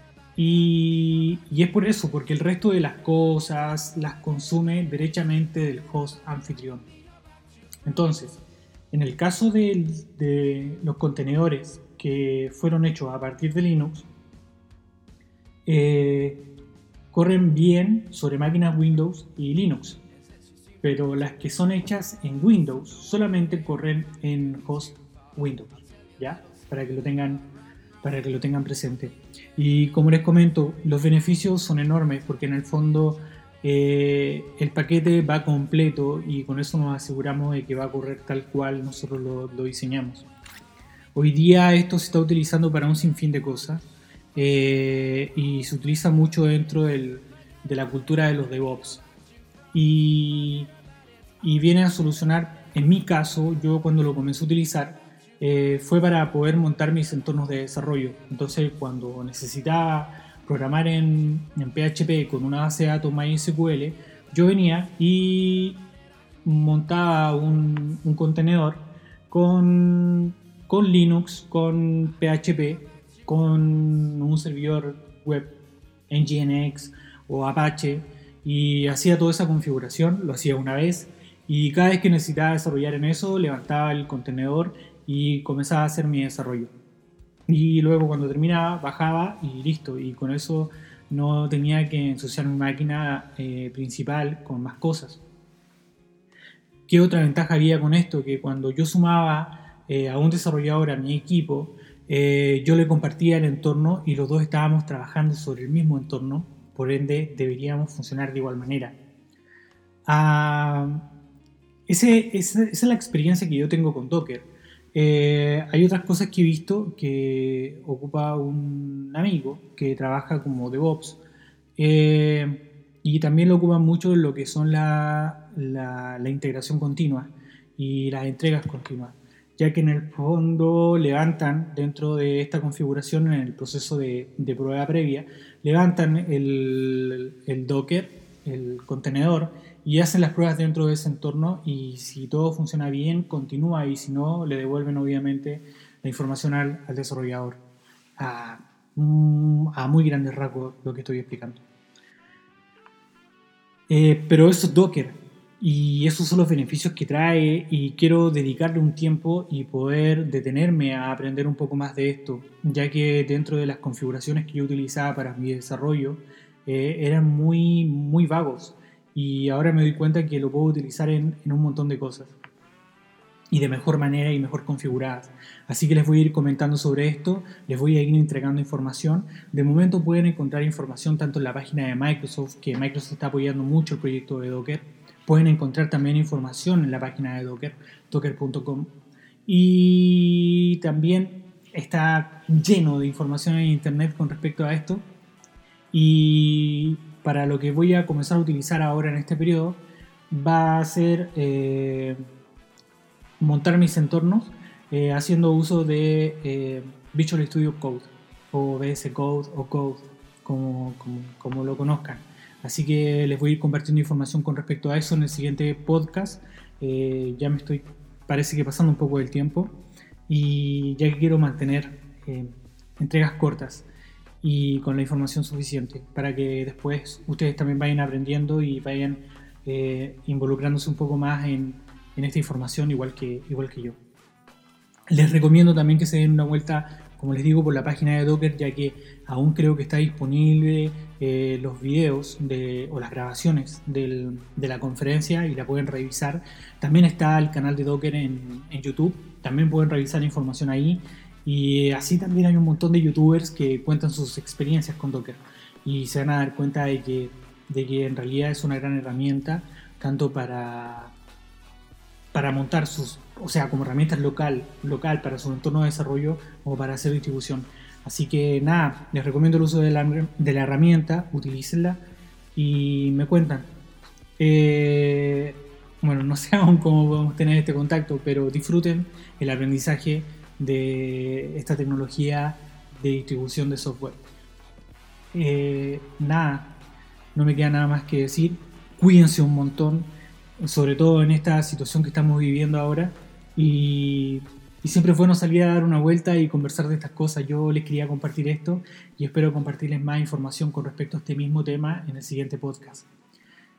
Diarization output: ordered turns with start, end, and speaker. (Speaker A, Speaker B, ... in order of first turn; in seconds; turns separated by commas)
Speaker A: 0.4-6.9, Speaker A: 7.9-8.4, Speaker A: 8.9-14.1, Speaker A: 15.7-16.4, Speaker A: 17.1-20.0, Speaker A: 20.8-27.5, Speaker A: 28.0-40.3, Speaker A: 41.1-43.8, Speaker A: 44.4-49.0, Speaker A: 49.7-50.7, Speaker A: 51.4-65.8, Speaker A: 66.5-75.5, Speaker A: 76.1-86.7, Speaker A: 87.5-95.2, Speaker A: 96.9-109.0, Speaker A: 110.1-111.0, Speaker A: 111.9-121.2, Speaker A: 121.8-147.6, Speaker A: 148.2-151.6, Speaker A: 153.9-172.3, Speaker A: 173.5-188.9, Speaker A: 189.5-195.1, Speaker A: 195.9-202.2, Speaker A: 203.4-219.7, Speaker A: 220.3-223.9, Speaker A: 224.4-234.0, Speaker A: 235.1-261.1, Speaker A: 262.3-272.0, Speaker A: 272.6-273.7, Speaker A: 274.4-284.2, Speaker A: 285.3-286.7, Speaker A: 287.4-303.1